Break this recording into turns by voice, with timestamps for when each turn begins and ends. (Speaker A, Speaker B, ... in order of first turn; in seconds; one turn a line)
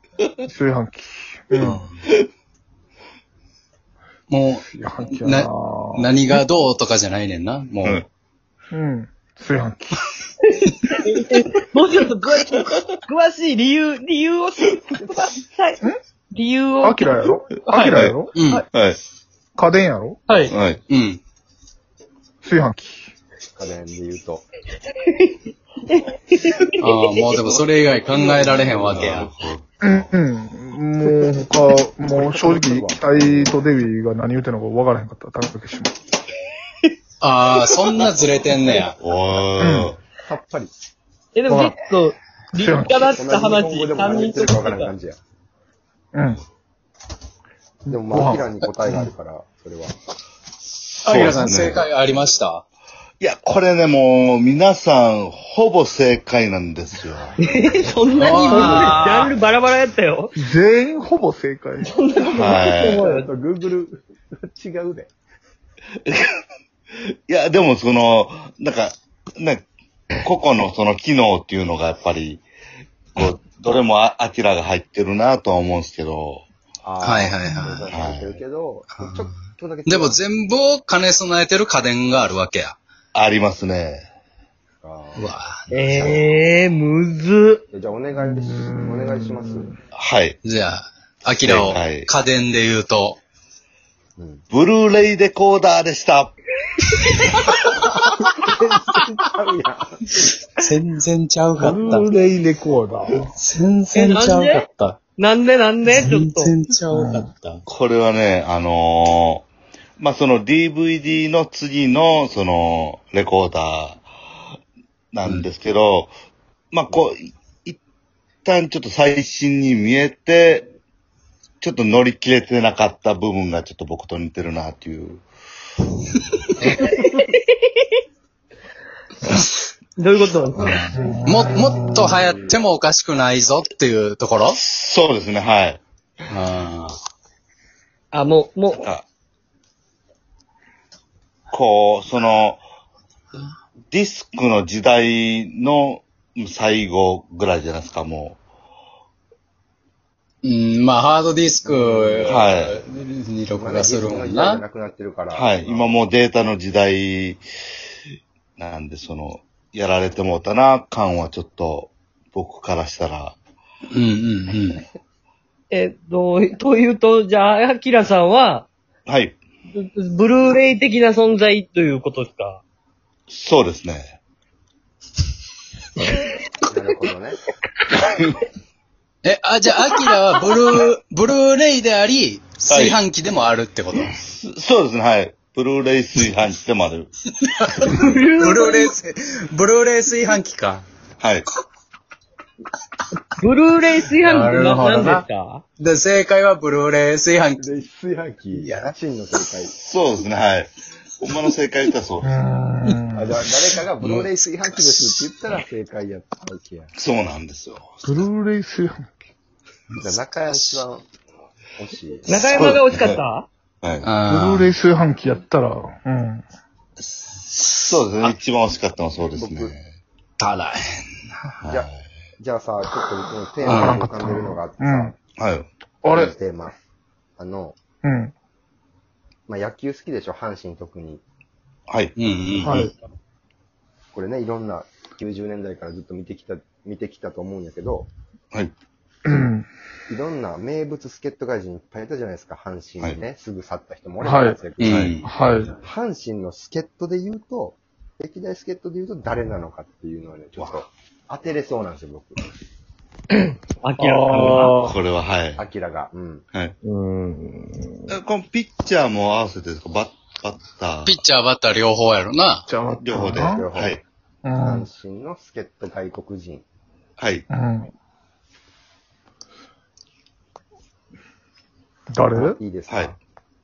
Speaker A: 0.5-1.8
Speaker B: 1.6-2.3
Speaker C: 4.3-4.7
Speaker A: 4.7-6.2
Speaker C: 5.2-8.0
Speaker A: 8.7-10.0
Speaker D: 10.6-18.6
Speaker A: 16.8-18.3
Speaker B: 17.9-18.2
Speaker C: 18.4-18.6
Speaker B: 18.7-19.0
Speaker A: 19.6-20.2
Speaker D: 20.3-20.5
Speaker B: 20.5-20.8
Speaker C: 20.9-21.2
Speaker A: 22.4-23.1
Speaker E: 23.5-24.5
Speaker D: 24.9-26.8
Speaker C: 26.8-29.3
Speaker B: 28.5-29.8
Speaker A: 29.8-35.9
Speaker E: 31.0-33.6
Speaker C: 37.2-39.0
Speaker B: 39.0-40.0
Speaker A: 39.6-39.9
Speaker E: 40.2-40.7
Speaker D: 41.3-44.9
Speaker A: 41.5-41.7
Speaker A: 42.5-43.1
Speaker E: 43.0-45.2
Speaker A: 46.1-46.4
Speaker A: 47.9-48.9
Speaker E: 47.9-50.0
Speaker B: 51.0-51.8
Speaker C: 51.0-52.6
Speaker B: 53.2-57.4
Speaker D: 57.4-60.3
Speaker C: 58.1-59.3
Speaker E: 58.6-58.9
Speaker A: 60.4-61.9
Speaker D: 61.8-63.2
Speaker B: 62.3-63.0
Speaker E: 63.0-65.1
Speaker B: 66.0-66.3
Speaker B: 67.0-69.6
Speaker B: 70.2-72.4
Speaker B: 73.1-76.5
Speaker E: 76.8-80.2
Speaker C: 77.0-77.9
Speaker B: 77.9-78.4
Speaker C: 79.0-79.3
Speaker C: 79.8-82.8
Speaker B: 83.1-84.1
Speaker E: 84.8-85.3
Speaker C: 85.2-85.6
Speaker D: 85.7-87.6
Speaker B: 85.9-86.2
Speaker E: 87.7-89.7
Speaker A: 88.2-89.8
Speaker B: 90.0-90.4
Speaker C: 90.4-93.2
Speaker B: 91.4-92.1
Speaker E: 94.2-94.4
Speaker B: 94.5-96.3
Speaker E: 98.0-100.0
Speaker C: 100.6-102.1
Speaker A: 101.6-103.3
Speaker C: 103.3-105.0
Speaker D: 103.9-104.6
Speaker D: 105.2-106.5
Speaker C: 105.9-107.6
Speaker A: 106.9-107.3
Speaker B: 107.7-109.5
Speaker B: 110.0-114.0
Speaker B: 115.1-116.1
Speaker B: 116.7-117.8
Speaker B: 118.4-120.7
Speaker B: 121.6-125.2
Speaker D: 126.7-127.9
Speaker D: 130.0-130.8
Speaker C: 130.6-134.6
Speaker A: 130.9-132.1
Speaker B: 134.5-135.8
Speaker C: 136.3-137.0
Speaker D: 138.1-138.8
Speaker B: 138.7-139.1
Speaker B: 141.5-142.6
Speaker B: 143.9-148.4
Speaker C: 150.4-154.6
Speaker E: 151.7-152.3
Speaker B: 152.2-152.8
Speaker E: 153.5-156.0
Speaker B: 155.3-157.4
Speaker B: 158.6-163.3
Speaker C: 163.9-164.8
Speaker D: 165.7-168.7
Speaker B: 169.1-169.4
Speaker D: 169.7-172.6
Speaker B: 173.3-174.2
Speaker E: 176.7-177.4
Speaker B: 178.1-178.3
Speaker C: 179.2-184.2
Speaker B: 182.7-183.0
Speaker B: 184.1-187.1
Speaker C: 187.4-190.8
Speaker D: 187.8-188.9
Speaker B: 191.2-191.4
Speaker D: 193.4-195.6
Speaker C: 194.2-195.2
Speaker C: 195.8-197.6
Speaker E: 197.6-199.7
Speaker C: 198.5-198.9
Speaker B: 199.8-202.4
Speaker A: 202.2-203.3
Speaker E: 203.1-206.9
Speaker C: 204.0-205.2
Speaker B: 206.9-208.2
Speaker A: 208.0-209.1
Speaker C: 210.0-210.8
Speaker E: 210.0-211.1
Speaker E: 211.8-212.8
Speaker D: 212.3-213.5
Speaker B: 212.5-213.2
Speaker B: 213.8-214.1
Speaker C: 214.0-214.7
Speaker A: 214.2-216.4
Speaker B: 217.8-219.8
Speaker E: 219.3-219.7
Speaker C: 220.4-220.8
Speaker B: 221.6-221.9
Speaker E: 221.7-225.1
Speaker C: 223.6-224.0
Speaker A: 223.7-225.1
Speaker B: 225.4-225.7
Speaker A: 226.0-226.3
Speaker E: 226.1-226.8
Speaker E: 227.4-227.8
Speaker A: 228.0-228.3
Speaker E: 229.5-231.2
Speaker B: 231.9-232.7
Speaker C: 232.2-232.9
Speaker A: 232.6-232.9
Speaker E: 234.1-238.1
Speaker A: 239.2-239.7
Speaker E: 240.1-252.5
Speaker A: 244.2-244.6
Speaker C: 244.8-245.2
Speaker B: 244.9-245.1
Speaker A: 245.2-245.7
Speaker B: 250.6-250.8
Speaker D: 253.3-254.8
Speaker A: 254.0-255.0
Speaker B: 254.8-255.7
Speaker E: 255.6-256.4
Speaker D: 256.9-257.9
Speaker B: 258.1-261.2
Speaker C: 261.0-262.7
Speaker A: 262.7-263.7
Speaker B: 262.9-264.0
Speaker E: 263.3-264.0
Speaker A: 264.4-264.9
Speaker E: 264.6-266.6
Speaker B: 267.2-267.4
Speaker A: 267.5-267.9
Speaker A: 272.1-272.6
Speaker E: 272.3-273.2
Speaker B: 272.9-273.1